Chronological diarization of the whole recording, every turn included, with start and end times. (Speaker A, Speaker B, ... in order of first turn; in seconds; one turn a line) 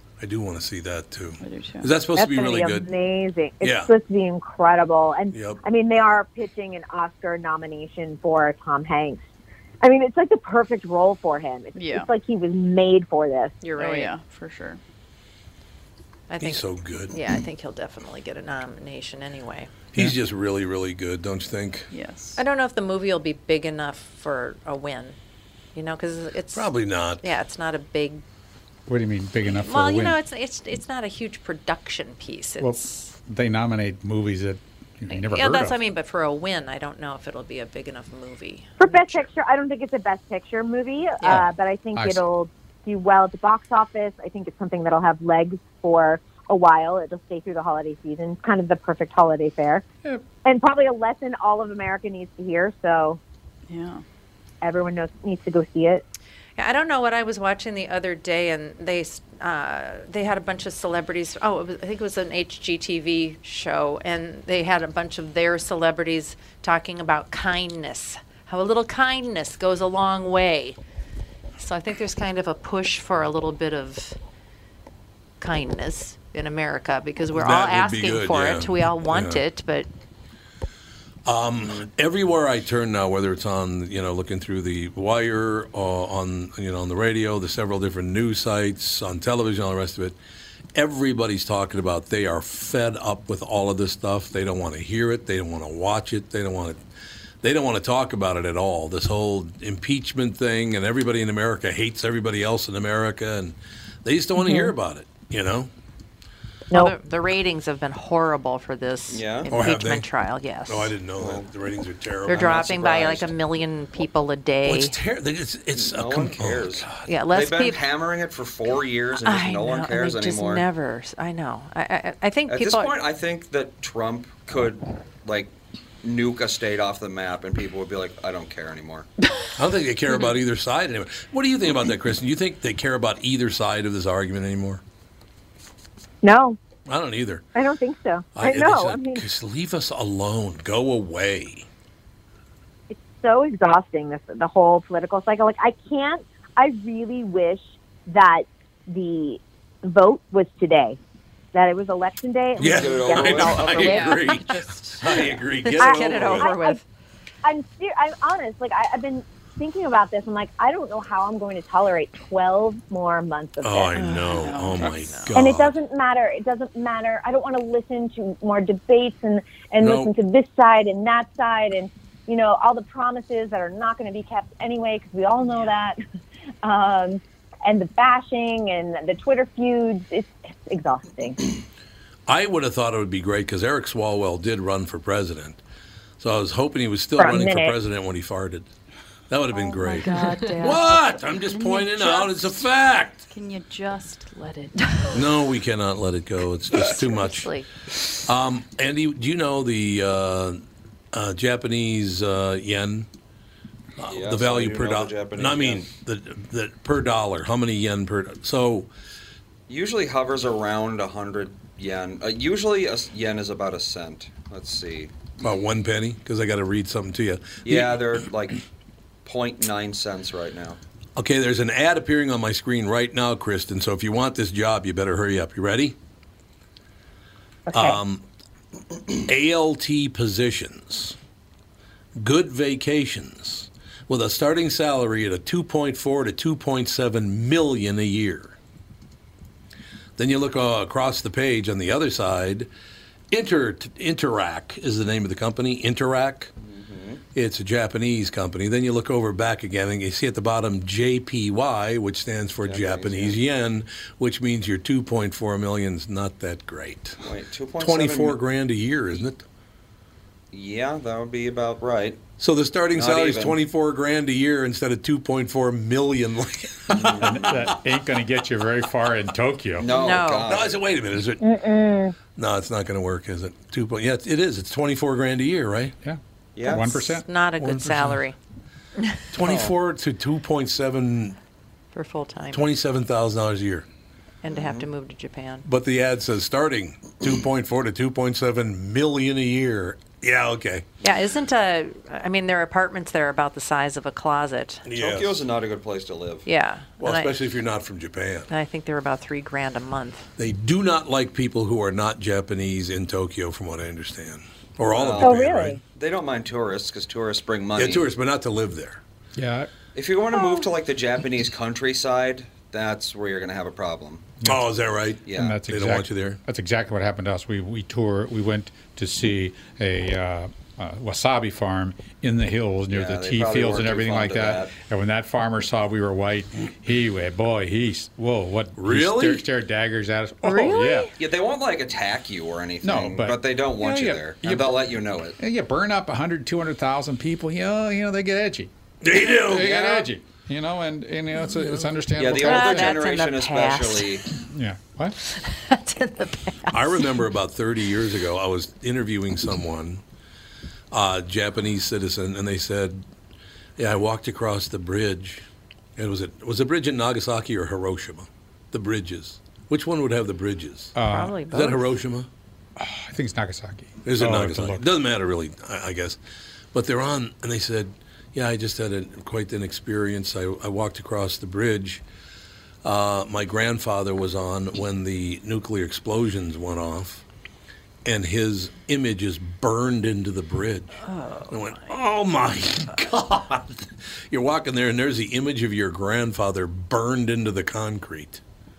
Speaker A: 0.2-2.9
Speaker B: 1.4-1.9
Speaker C: 2.1-9.2
Speaker A: 3.6-3.9
Speaker A: 5.3-5.6
Speaker C: 9.8-13.6
Speaker B: 11.7-12.1
Speaker D: 13.6-14.1
Speaker B: 13.8-14.8
Speaker D: 16.3-19.7
Speaker A: 16.4-17.3
Speaker A: 19.9-21.9
Speaker B: 21.9-22.4
Speaker D: 22.4-25.1
Speaker D: 25.7-26.7
Speaker A: 26.5-27.3
Speaker D: 27.2-28.2
Speaker E: 28.9-30.2
Speaker D: 29.5-33.1
Speaker E: 32.6-35.8
Speaker D: 35.1-39.3
Speaker C: 38.8-49.8
Speaker E: 41.2-42.2
Speaker C: 50.4-53.2
Speaker B: 53.7-54.0
Speaker C: 54.6-56.0
Speaker D: 56.6-70.8
Speaker D: 71.6-74.2
Speaker D: 75.4-79.9
Speaker A: 77.3-79.4
Speaker A: 81.2-90.2
Speaker A: 90.7-96.8
Speaker A: 97.4-105.7
Speaker C: 106.7-107.0
Speaker D: 106.7-111.0
Speaker F: 109.1-109.5
Speaker A: 109.5-110.1
Speaker A: 110.7-112.7
Speaker F: 111.2-111.5
Speaker D: 112.3-115.0
Speaker F: 112.3-113.3
Speaker A: 114.6-117.0
Speaker F: 115.7-120.7
Speaker D: 117.0-117.8
Speaker D: 119.2-122.9
Speaker F: 122.5-129.1
Speaker A: 129.6-134.8
Speaker C: 136.2-136.6
Speaker A: 136.9-137.4
Speaker C: 137.5-139.2
Speaker A: 138.3-141.7
Speaker C: 142.9-151.0
Speaker C: 151.5-154.3
Speaker A: 152.6-156.5
Speaker F: 152.6-153.9
Speaker B: 153.8-155.2
Speaker D: 155.6-156.8
Speaker C: 155.8-156.8
Speaker C: 157.4-164.0
Speaker A: 163.6-165.8
Speaker D: 164.1-165.3
Speaker B: 164.2-164.9
Speaker C: 165.3-176.0
Speaker A: 169.8-170.1
Speaker C: 176.6-181.4
Speaker A: 182.3-185.6
Speaker A: 186.2-188.7
Speaker C: 187.2-187.7
Speaker A: 189.3-193.3
Speaker B: 189.5-192.7
Speaker B: 193.2-195.2
Speaker A: 195.1-197.5
Speaker D: 196.8-197.7
Speaker A: 198.2-200.6
Speaker A: 201.1-203.1
Speaker A: 204.0-208.9
Speaker F: 204.1-205.9
Speaker F: 209.7-215.1
Speaker A: 215.4-218.2
Speaker F: 217.6-218.6
Speaker F: 219.2-220.8
Speaker A: 221.2-225.9
Speaker C: 227.7-228.0
Speaker A: 227.7-228.2
Speaker A: 229.2-231.1
Speaker A: 232.2-238.6
Speaker A: 240.2-242.7
Speaker A: 243.3-246.5
Speaker F: 246.6-247.2
Speaker A: 247.3-257.2
Speaker F: 252.6-253.4
Speaker F: 257.2-258.4
Speaker A: 257.8-259.4
Speaker F: 260.5-262.2
Speaker A: 262.4-267.8
Speaker F: 262.9-263.6
Speaker E: 266.9-269.9
Speaker F: 266.9-267.7
Speaker F: 269.8-270.8
Speaker D: 269.8-270.5
Speaker A: 270.4-271.7
Speaker C: 271.4-272.1
Speaker A: 272.3-275.9
Speaker E: 276.0-277.3
Speaker F: 276.6-277.0
Speaker D: 276.7-278.4
Speaker A: 277.6-278.2
Speaker A: 279.3-281.4
Speaker F: 279.4-279.7
Speaker D: 281.9-282.6
Speaker A: 282.5-283.9
Speaker D: 284.4-285.6
Speaker F: 284.5-284.9
Speaker A: 285.6-290.8
Speaker D: 291.0-294.8
Speaker A: 294.8-295.4
Speaker F: 294.9-296.5
Speaker D: 296.4-297.3
Speaker A: 297.0-298.5
Speaker D: 298.5-300.3
Speaker A: 300.4-305.8
Speaker F: 304.9-305.4
Speaker C: 305.2-305.8
Speaker F: 305.9-308.1
Speaker A: 307.7-309.0
Speaker E: 309.4-309.7
Speaker F: 309.9-314.3
Speaker A: 314.4-316.4
Speaker F: 315.2-315.6
Speaker E: 315.3-331.1
Speaker F: 322.9-324.8
Speaker A: 328.8-329.4
Speaker D: 330.4-331.1
Speaker F: 331.2-335.4
Speaker E: 332.8-343.1
Speaker A: 339.0-340.1
Speaker F: 342.2-344.2
Speaker D: 342.3-344.2
Speaker E: 344.5-345.1
Speaker D: 345.2-347.2
Speaker A: 346.7-350.0
Speaker A: 350.9-353.0
Speaker A: 353.8-355.4
Speaker A: 356.0-360.9
Speaker E: 360.9-361.4
Speaker D: 361.0-361.9
Speaker A: 361.5-362.3
Speaker E: 362.8-364.8
Speaker A: 364.0-366.2
Speaker A: 366.7-372.0
Speaker A: 372.8-377.2
Speaker A: 378.0-388.4
Speaker D: 381.0-381.9